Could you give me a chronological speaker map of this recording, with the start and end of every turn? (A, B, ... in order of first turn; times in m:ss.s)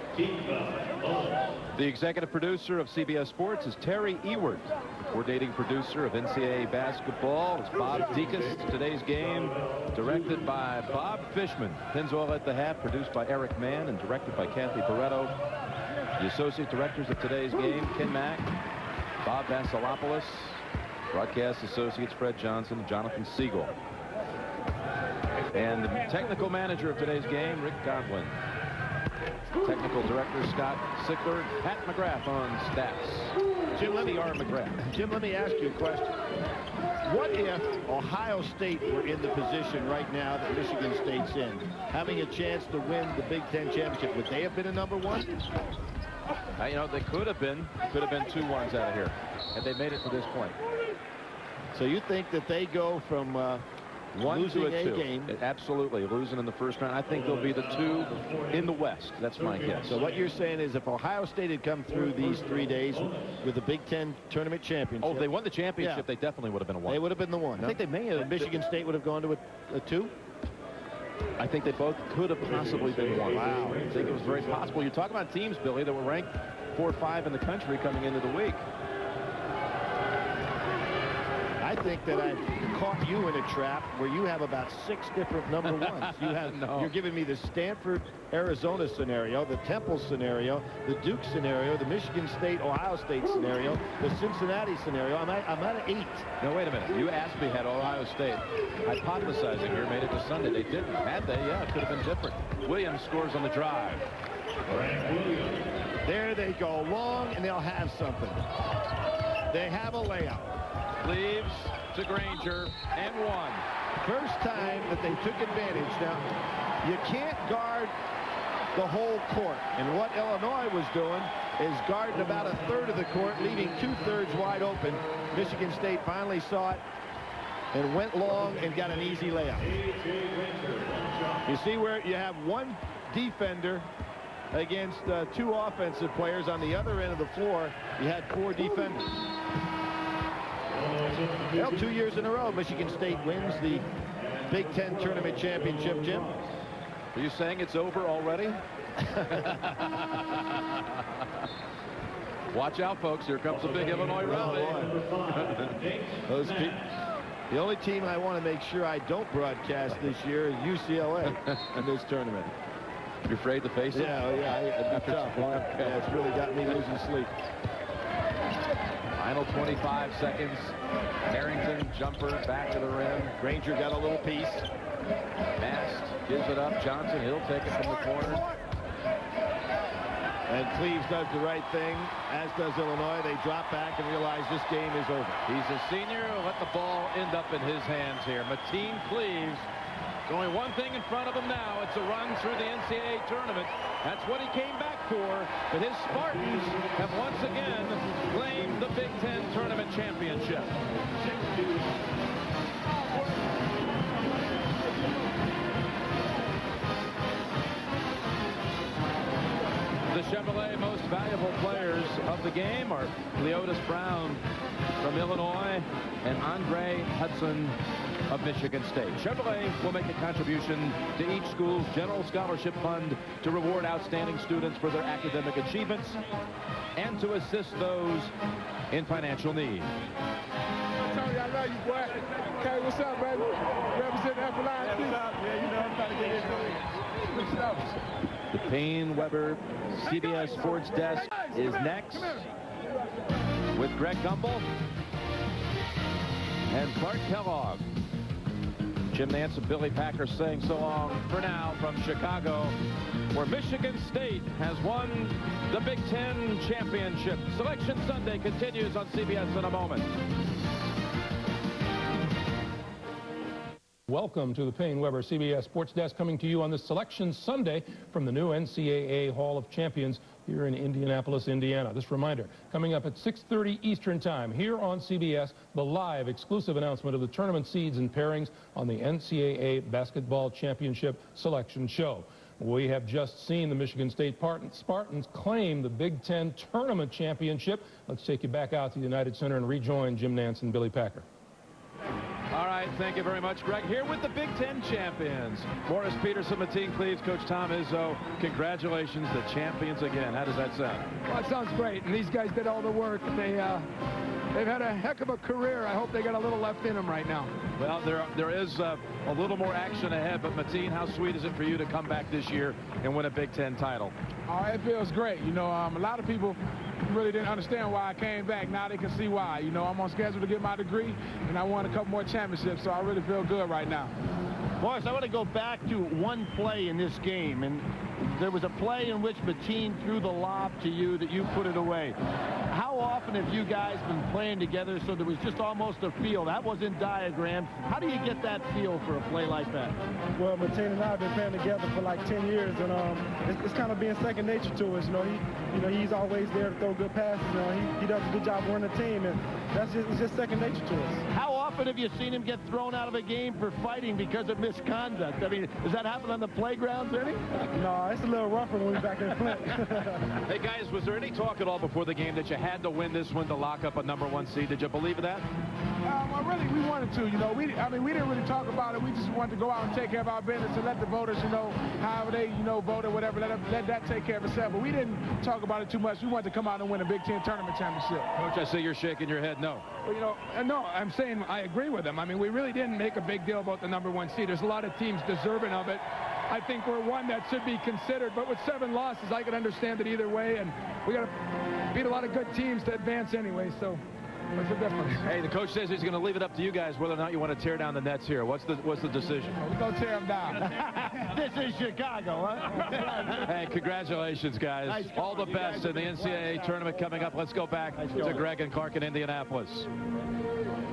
0:01.7-0:15.3 A
0:16.2-0:18.5 A
0:19.2-0:23.7 A
0:25.5-0:28.4 A
0:29.6-0:34.8 A
0:33.7-0:36.1 B
0:37.0-0:45.4 B
0:46.6-0:50.6 A
0:51.7-0:55.3 B
0:54.2-1:00.0 A
0:59.8-1:06.0 B
1:05.0-1:07.0 A
1:06.8-1:10.1 B
1:07.6-1:08.5 A
1:11.4-1:18.6 A
1:13.2-1:13.9 B
1:21.6-1:36.3 B
1:25.6-1:26.9 A
1:36.4-1:44.0 A
1:44.7-1:45.3 A
1:46.0-1:48.4 B
1:49.5-1:50.6 B
1:51.0-1:53.6 A
1:54.0-1:56.2 B
1:56.8-1:57.9 B
1:58.7-2:06.8 B
2:07.7-2:09.8 B
2:11.4-2:13.9 B
2:14.5-2:19.2 B
2:21.5-2:23.9 B
2:24.5-2:26.4 B
2:27.1-2:28.6 A
2:29.0-2:29.6 B
2:29.2-2:31.0 A
2:32.5-2:36.2 A
2:34.2-2:35.0 B
2:36.3-2:36.8 B
2:37.5-2:42.5 B
2:43.2-2:44.2 A
2:43.9-2:47.3 B
2:44.9-2:46.2 A
2:49.2-2:53.4 A
2:53.4-2:54.6 B
2:55.6-2:58.4 A
3:00.5-3:05.4 B
3:05.5-3:09.7 A
3:10.3-3:20.8 A
3:30.1-3:34.4 A
3:35.0-3:37.8 A
3:38.3-3:46.2 A
3:47.0-3:48.3 A
3:48.9-3:49.9 A
3:51.0-3:58.0 C
3:58.5-4:02.5 A
4:03.7-4:04.7 A
4:06.6-4:07.9 A
4:09.1-4:12.8 A
4:13.3-4:20.1 A
4:24.1-4:51.2 D
4:52.5-5:01.1 A
5:01.3-5:03.9 C
5:04.5-5:07.5 C
5:07.8-5:14.1 A
5:14.5-5:24.1 C
5:24.8-5:32.2 B
5:32.7-5:40.0 B
5:40.4-5:51.3 E
5:51.3-5:57.5 B
5:57.6-6:00.2 E
6:00.3-6:05.5 A
6:06.0-6:18.3 C
6:18.3-6:19.9 A
6:20.0-6:31.3 C
6:31.9-6:34.0 C
6:34.6-6:35.3 C
6:35.2-6:39.6 A
6:39.6-6:40.6 C
6:40.6-6:43.5 B
6:43.1-6:49.9 A
6:44.8-6:47.0 B
6:47.9-6:48.5 B